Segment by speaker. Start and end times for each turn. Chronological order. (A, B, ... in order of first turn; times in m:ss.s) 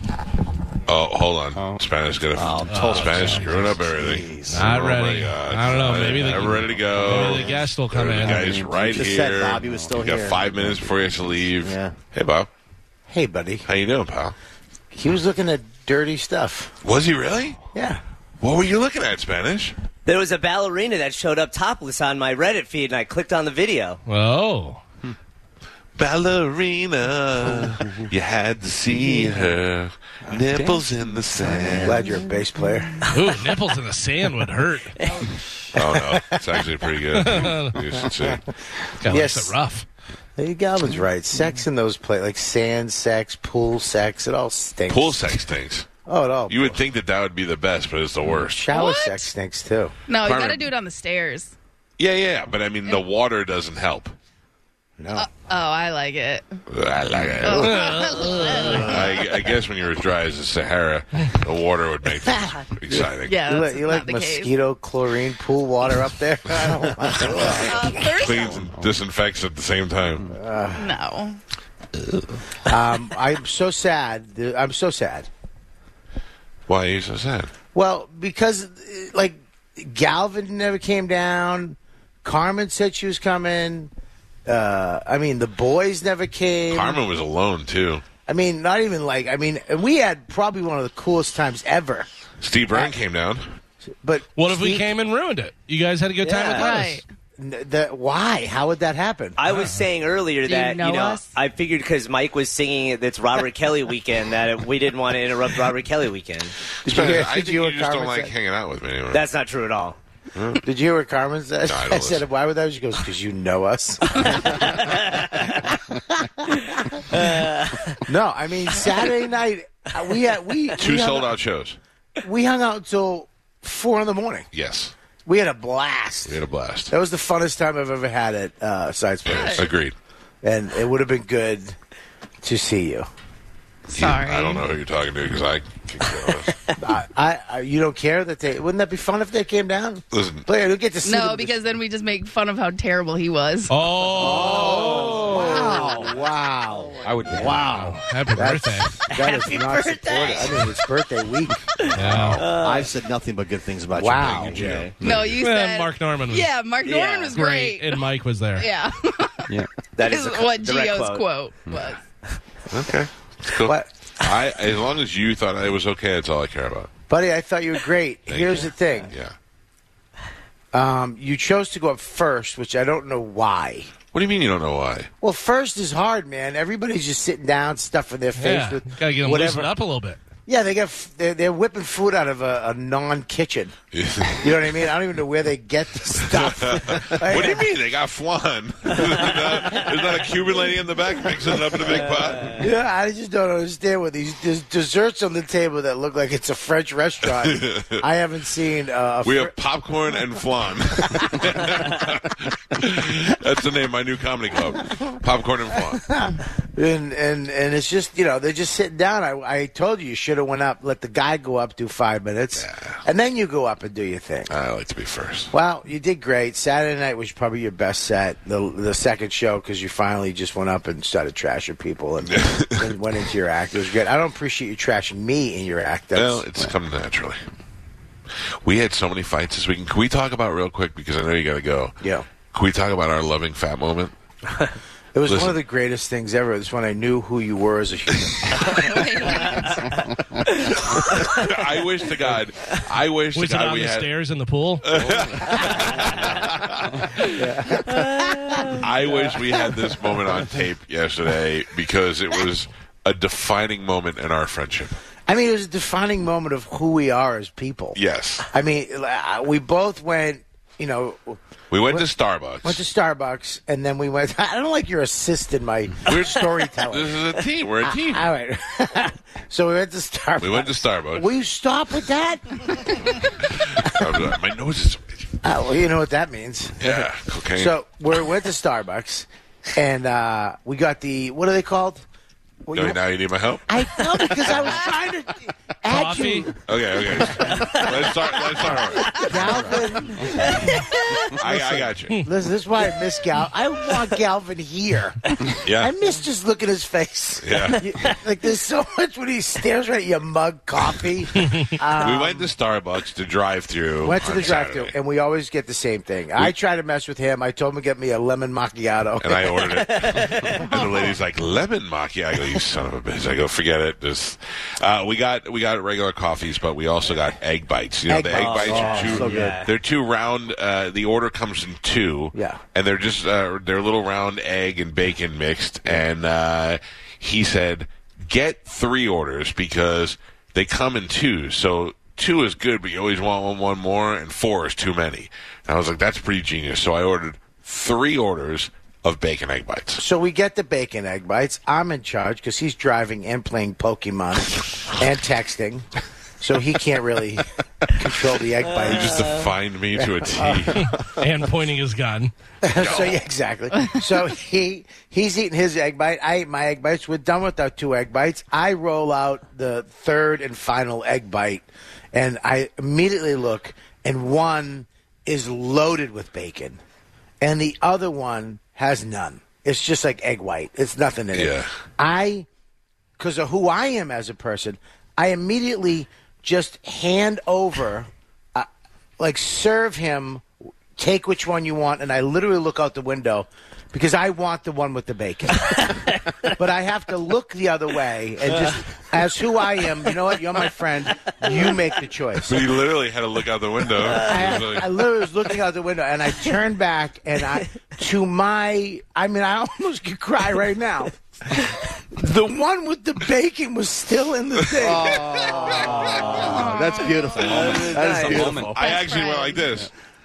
0:00.9-0:12.5 A
0:02.3-0:04.7 B
0:02.7-0:03.8 C
0:04.5-0:08.5 C
0:08.3-0:10.5 B
0:11.6-0:12.0 B
0:13.1-0:13.7 D
0:13.7-0:14.4 A
0:14.9-0:16.7 D
0:16.8-0:17.6 A
0:17.7-0:18.0 D
0:18.4-0:19.8 A
0:20.1-0:24.0 E
0:24.1-0:24.8 C
0:26.0-0:32.1 A
0:31.8-0:33.0 D
0:33.1-0:35.0 C
0:35.7-0:38.4 A
0:37.2-0:37.8 C
0:39.0-0:39.8 C
0:39.0-0:39.6 D
0:40.4-0:45.4 D
0:44.9-0:45.9 A
0:46.1-0:46.8 D
0:46.5-0:48.7 A
0:48.3-0:49.9 D
0:48.7-0:49.3 F
0:50.1-0:51.5 F
0:50.2-0:50.7 A
0:52.0-0:54.2 A
0:55.0-0:55.3 D
0:55.2-0:56.6 F
0:56.7-0:57.9 A
0:57.4-0:59.3 F
0:57.5-0:58.9 C
0:58.8-1:03.4 A
1:02.9-1:08.0 D
1:03.2-1:04.5 F
1:07.1-1:10.4 A
1:07.5-1:08.6 F
1:10.3-1:10.9 D
1:10.8-1:11.4 F
1:12.6-1:15.3 D
1:16.7-1:17.5 A
1:17.7-1:23.9 D
1:24.5-1:27.0 D
1:26.7-1:28.0 A
1:28.3-1:32.1 D
1:32.4-1:33.4 A
1:34.0-1:34.9 D
1:34.4-1:37.0 C
1:36.2-1:36.7 E
1:36.5-1:37.0 F
1:37.4-1:39.4 D
1:39.4-1:46.6 E
1:39.5-1:39.8 C
1:40.5-1:41.3 F
1:46.8-1:48.3 D
1:46.8-1:49.3 A
1:49.1-1:50.0 E
1:50.3-1:50.6 A
1:50.6-1:57.0 D
1:51.6-1:52.2 A
1:55.0-1:55.2 E
1:57.1-1:58.0 E
1:58.1-2:01.4 D
2:00.8-2:01.8 A
2:02.2-2:04.5 D
2:04.5-2:04.9 A
2:05.3-2:06.4 D
2:06.3-2:06.9 A
2:06.9-2:09.7 D
2:09.3-2:10.0 A
2:09.3-2:09.7 F
2:10.4-2:11.8 D
2:12.4-2:13.1 D
2:13.9-2:16.5 A
2:13.9-2:14.7 F
2:16.8-2:21.6 D
2:20.1-2:20.5 A
2:21.0-2:23.7 F
2:23.7-2:25.2 C
2:24.2-2:31.7 D
2:24.3-2:26.1 E
2:27.4-2:28.9 C
2:30.0-2:30.4 F
2:30.0-2:30.5 E
2:31.9-2:32.4 C
2:32.0-2:32.4 A
2:32.4-2:33.0 E
2:32.4-2:34.9 B
2:34.0-2:34.8 D
2:34.5-2:35.4 A
2:34.6-2:34.9 E
2:35.0-2:38.0 F
2:35.4-2:36.5 C
2:36.8-2:37.4 E
2:37.3-2:38.7 C
2:38.6-2:42.0 F
2:40.0-2:41.3 E
2:42.7-2:46.9 A
2:43.6-2:43.9 D
2:47.1-2:49.1 D
2:48.3-2:49.4 A
2:50.7-2:53.9 D
2:54.1-2:55.1 A
2:55.2-2:59.7 D
2:58.4-3:00.2 C
3:00.5-3:03.7 D
3:03.9-3:04.6 A
3:04.4-3:07.7 D
3:06.2-3:12.6 A
3:11.9-3:12.6 E
3:12.6-3:19.5 D
3:17.4-3:18.0 A
3:19.2-3:26.1 A
3:25.9-3:34.5 D
3:32.6-3:33.0 A
3:34.5-3:35.5 A
3:35.5-3:46.5 D
3:42.3-3:42.9 A
3:46.1-3:47.4 A
3:48.6-3:52.0 A
3:52.0-3:52.3 D
3:52.5-3:54.1 A
3:55.1-3:59.4 D
3:55.3-3:55.6 A
3:58.7-3:59.9 F
4:00.9-4:04.1 A
4:03.4-4:04.9 C
4:04.8-4:07.4 A
4:07.2-4:08.6 D
4:07.9-4:08.8 E
4:08.7-4:15.0 A
4:15.3-4:18.0 D
4:18.0-4:18.5 A
4:18.5-4:22.1 D
4:21.7-4:22.8 A
4:22.6-4:33.2 D
4:26.1-4:28.3 A
4:30.4-4:31.3 A
4:33.5-4:35.3 A
4:33.8-4:34.2 D
4:35.4-4:42.0 D
4:36.8-4:37.7 A
4:42.7-4:43.0 D
4:42.8-4:43.6 A
4:43.7-4:46.6 D
4:45.9-4:46.5 C
4:46.7-4:49.3 A
4:47.2-4:48.1 D
4:49.0-4:50.7 D
4:50.4-4:51.3 E
4:51.3-4:52.2 A
4:51.4-5:02.5 D
4:55.6-4:55.9 A
4:57.4-4:57.8 A
5:01.4-5:01.7 C
5:01.9-5:04.9 A
5:04.0-5:09.8 D
5:09.2-5:40.0 A
5:09.8-5:10.6 E
5:18.1-5:19.6 D
5:18.3-5:19.7 E
5:18.6-5:19.6 B
5:22.3-5:22.6 D
5:40.0-5:45.9 D
5:46.4-5:50.9 D
5:48.6-5:49.5 E
5:48.8-5:51.0 A
5:50.8-5:52.3 C
5:52.6-6:06.8 D
5:52.7-5:53.2 A
6:07.4-6:12.5 D
6:11.3-6:11.7 A
6:13.2-6:18.7 D
6:19.2-6:32.6 D
6:32.4-6:34.9 A
6:34.0-6:34.5 E
6:34.1-6:41.6 D
6:42.1-6:46.5 D
6:44.6-6:46.5 A
6:44.8-6:48.7 B
6:45.6-6:46.5 E
6:46.5-6:48.0 F
6:47.4-6:48.7 E
6:47.4-6:49.9 A
6:48.7-6:49.8 F